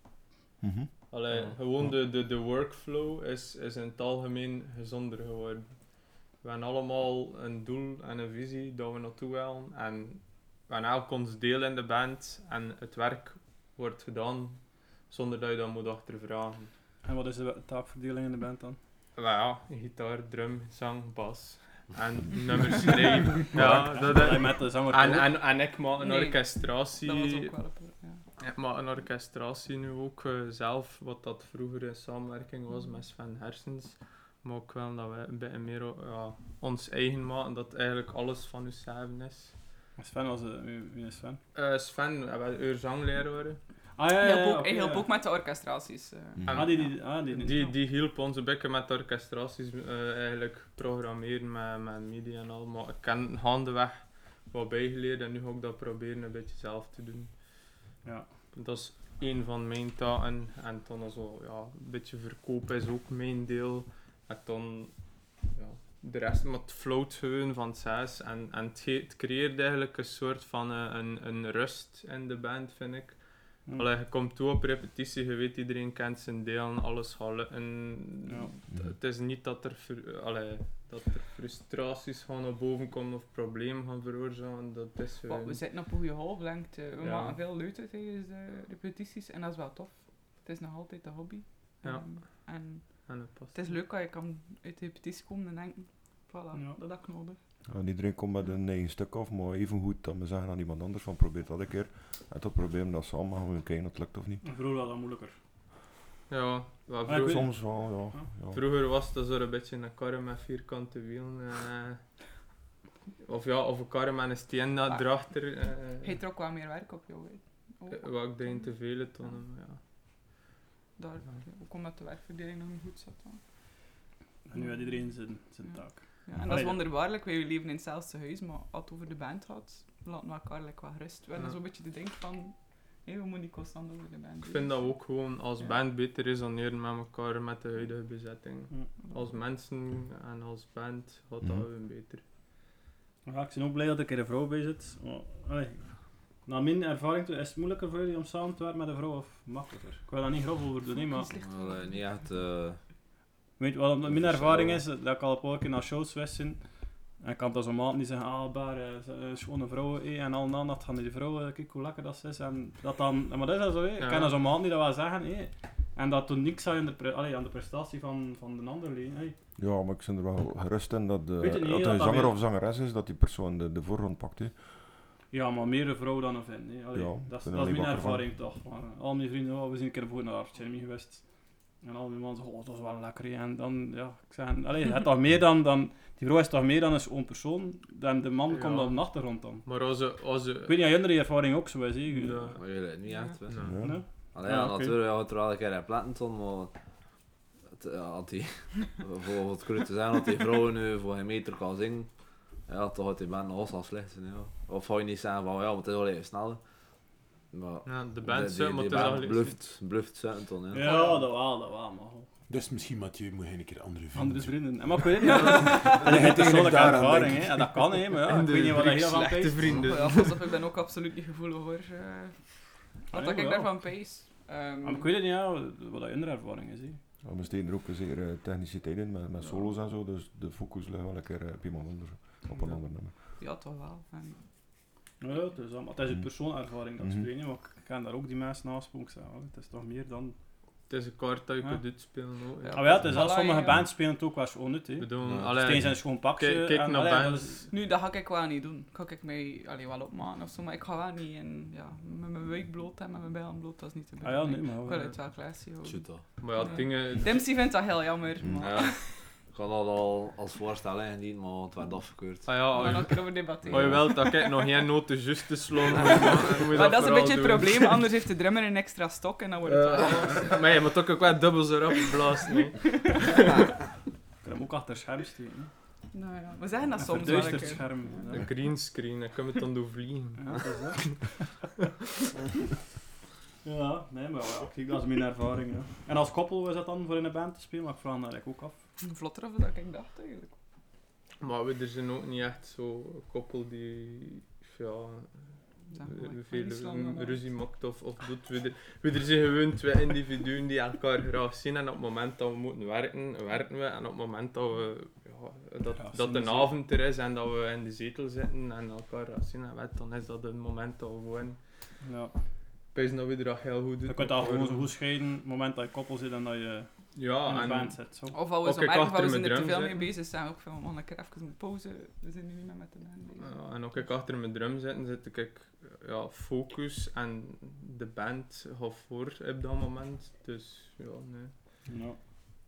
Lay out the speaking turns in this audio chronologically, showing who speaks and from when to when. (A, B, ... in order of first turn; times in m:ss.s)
0:00.6-0:01.2 A
0:01.1-0:16.7 B
0:17.0-0:18.8 C
0:19.2-0:27.5 B
0:23.4-0:25.4 C
0:26.0-0:28.2 D
0:28.4-0:39.6 B
0:40.0-0:41.4 C
0:41.6-0:43.6 B
0:44.0-0:45.1 C
0:44.2-0:47.7 D
0:46.4-0:46.7 A
0:46.5-0:57.4 B
0:46.5-0:47.7 C
0:58.5-1:25.6 B
1:25.3-1:37.4 D
1:27.0-1:27.4 B
1:31.8-1:33.7 B
1:36.5-1:36.8 C
1:37.7-1:44.4 A
1:44.4-1:45.4 C
1:46.3-1:47.7 B
1:47.1-1:48.3 C
1:47.2-1:48.6 A
1:48.5-1:52.1 B
1:53.2-1:56.2 B
1:54.9-1:59.4 D
1:57.9-1:59.8 B
2:01.0-2:03.9 D
2:04.5-2:06.9 C
2:04.6-2:15.8 D
2:14.4-2:22.2 B
2:21.4-2:21.7 A
2:23.3-2:31.3 C
2:30.9-2:32.2 D
2:31.4-2:32.8 E
2:33.6-2:36.6 C
2:34.1-2:34.8 E
2:37.2-2:49.4 C
2:44.0-2:44.3 B
2:49.6-2:54.8 A
2:51.4-2:52.4 C
2:55.3-3:01.2 C
2:56.9-2:58.3 A
3:01.8-3:09.7 C
3:08.5-3:10.9 B
3:10.7-3:12.6 C
3:12.1-3:12.6 B
3:12.6-3:13.8 E
3:13.5-3:14.0 B
3:13.6-3:14.0 A
3:13.8-3:15.0 C
3:14.3-3:16.8 E
3:17.7-3:26.7 E
3:27.5-3:30.9 E
3:27.9-3:29.6 B
3:30.7-3:32.3 C
3:30.8-3:31.3 D
3:32.5-3:38.0 F
3:34.1-3:39.8 C
3:35.2-3:36.0 D
3:38.3-3:40.5 B
3:39.7-3:45.1 D
3:43.1-3:44.1 C
3:44.8-3:47.0 C
3:47.2-3:53.1 A
3:49.4-3:49.7 C
3:53.4-3:54.4 D
3:55.2-4:00.4 C
3:57.0-3:57.3 A
4:00.9-4:03.1 B
4:01.6-4:07.7 C
4:02.6-4:03.9 D
4:05.0-4:07.6 B
4:05.2-4:05.9 F
4:07.7-4:19.0 D
4:14.2-4:15.2 C
4:15.8-4:16.4 E
4:16.4-4:17.5 B
4:18.4-4:18.8 A
4:18.6-4:22.8 E
4:22.5-4:28.1 B
4:22.7-4:24.7 D
4:23.7-4:24.0 E
4:26.0-4:30.8 D
4:29.6-4:33.4 B
4:34.4-4:35.7 C
4:36.1-4:38.4 D
4:37.0-4:38.5 C
4:38.3-4:41.2 B
4:40.4-4:41.3 C
4:43.6-4:48.8 C
4:49.0-4:50.6 D
4:51.4-5:11.6 B
4:55.9-4:57.5 D
5:06.0-5:06.8 C
5:12.0-5:12.3 C
5:12.9-5:14.9 B
5:14.1-5:18.4 C
5:17.2-5:18.0 B
5:18.3-5:24.1 D
5:18.6-5:20.1 B
5:23.4-5:31.5 B
5:31.9-5:32.2 C